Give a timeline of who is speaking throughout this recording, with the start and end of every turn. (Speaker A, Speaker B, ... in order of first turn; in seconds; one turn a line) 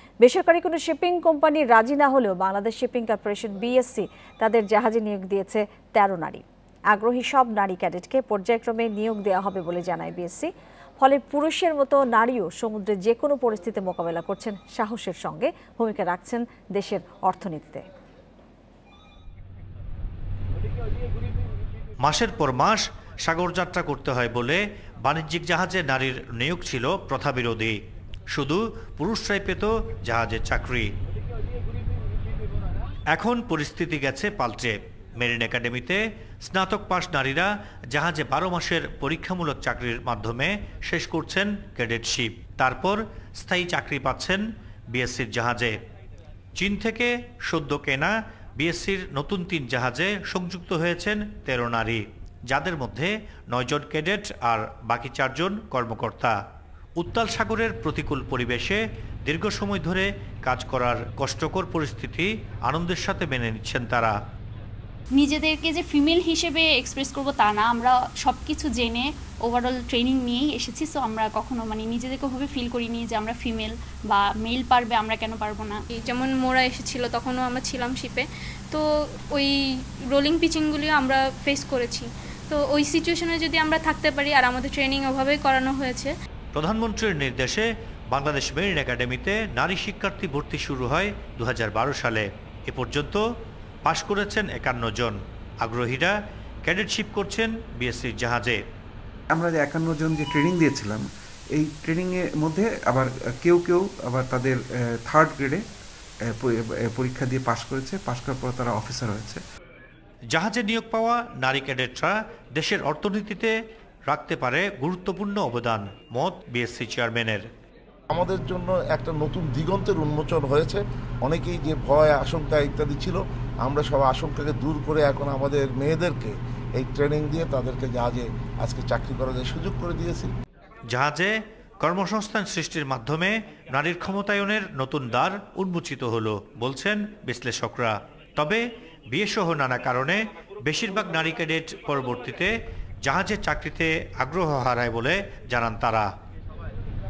Speaker A: 0.2-17.8
Speaker B: 22.0-30.9
Speaker B: 33.1-45.8
Speaker B: 46.6-56.4
Speaker B: 57.0-64.1
Speaker C: 65.1-75.8
Speaker D: 75.9-86.1
Speaker B: 86.5-93.2
Speaker B: 93.8-98.6
Speaker E: 99.3-105.6
Speaker E: 106.3-109.4
Speaker B: 110.3-113.5
Speaker B: 114.1-117.5
Speaker F: 118.1-130.3
Speaker B: 130.9-146.1